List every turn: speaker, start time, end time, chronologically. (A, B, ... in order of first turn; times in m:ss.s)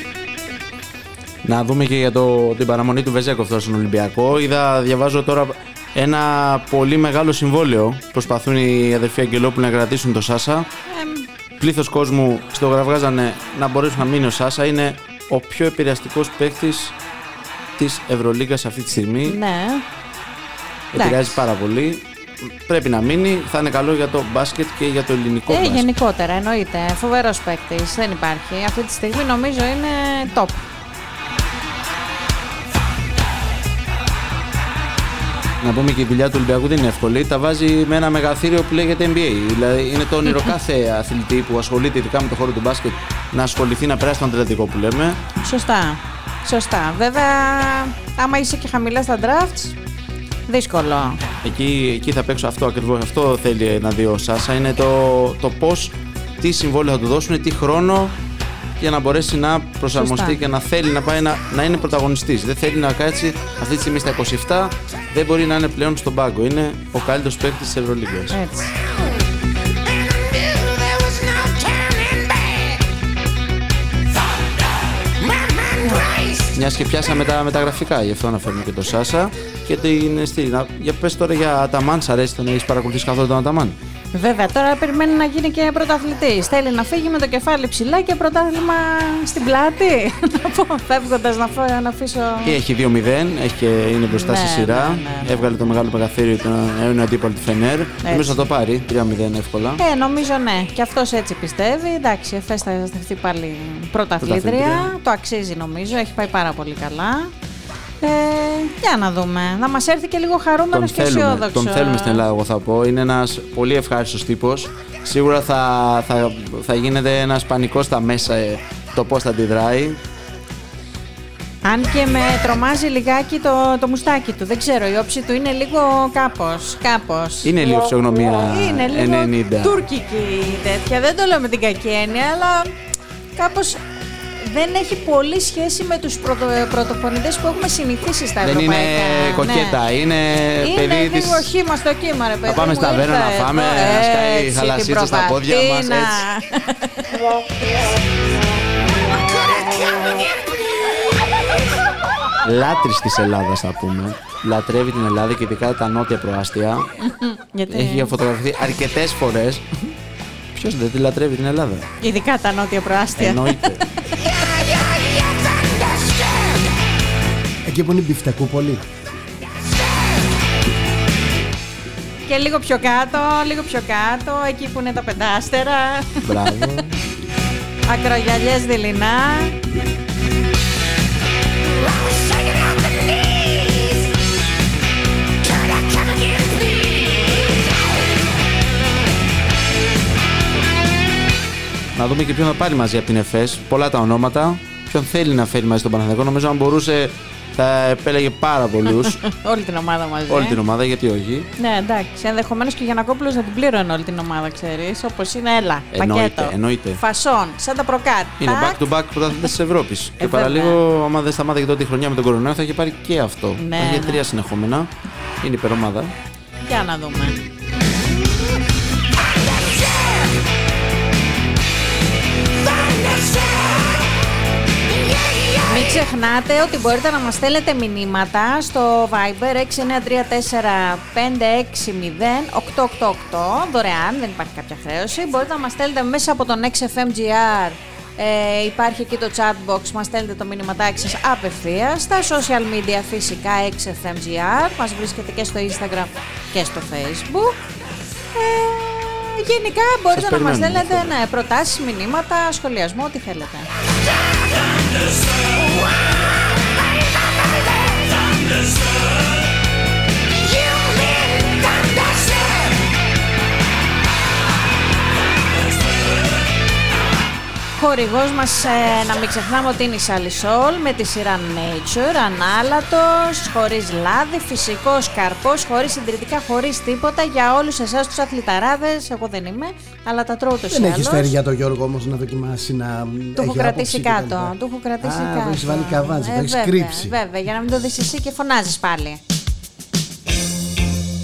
0:01.4-0:10.7 A
0:10.9-0:11.3 B
0:11.6-0:16.9 A
0:17.8-0:19.4 A
0:19.3-0:19.8 B
0:20.9-0:25.9 A
0:21.0-0:21.4 B
0:25.5-0:30.6 B
0:35.6-0:45.2 A
0:45.4-0:49.7 B
0:50.5-0:51.2 B
0:51.4-0:58.2 A
0:58.8-1:08.4 A
0:59.9-1:00.4 B
1:08.3-1:08.7 B
1:15.8-1:16.1 B
1:16.5-1:23.8 A
1:24.1-1:32.6 B
1:32.4-1:39.8 A
1:34.1-1:35.4 B
1:38.0-1:38.5 B
1:39.8-1:47.3 B
1:44.2-1:44.9 A
1:48.0-1:52.2 B
1:50.7-2:00.0 A
2:01.6-2:12.7 B
2:07.4-2:09.8 A
2:13.4-2:13.8 B
2:14.4-2:19.8 B
2:18.4-2:21.5 A
2:20.6-2:27.2 B
2:22.5-2:26.2 A
2:32.4-2:36.9 A
2:37.0-2:38.1 B
2:37.7-2:39.6 A
2:40.6-2:41.9 A
2:42.0-2:43.7 B
2:43.2-2:43.8 A
2:47.6-2:48.8 C
2:52.3-2:56.2 B
2:56.2-2:56.9 A
2:57.9-2:59.6 B
3:12.0-3:19.2 A
3:18.9-3:20.6 B
3:20.3-3:21.5 A
3:21.6-3:28.8 B
3:25.9-3:27.0 A
3:28.4-3:34.9 A
3:30.2-3:30.8 B
3:33.6-3:34.2 B
3:35.4-3:36.1 A
3:36.6-3:37.4 B
3:45.6-4:07.6 B
4:08.3-4:13.7 B
4:10.1-4:11.1 A
4:27.8-4:41.3 B
4:40.7-4:47.2 C
4:43.4-4:49.2 B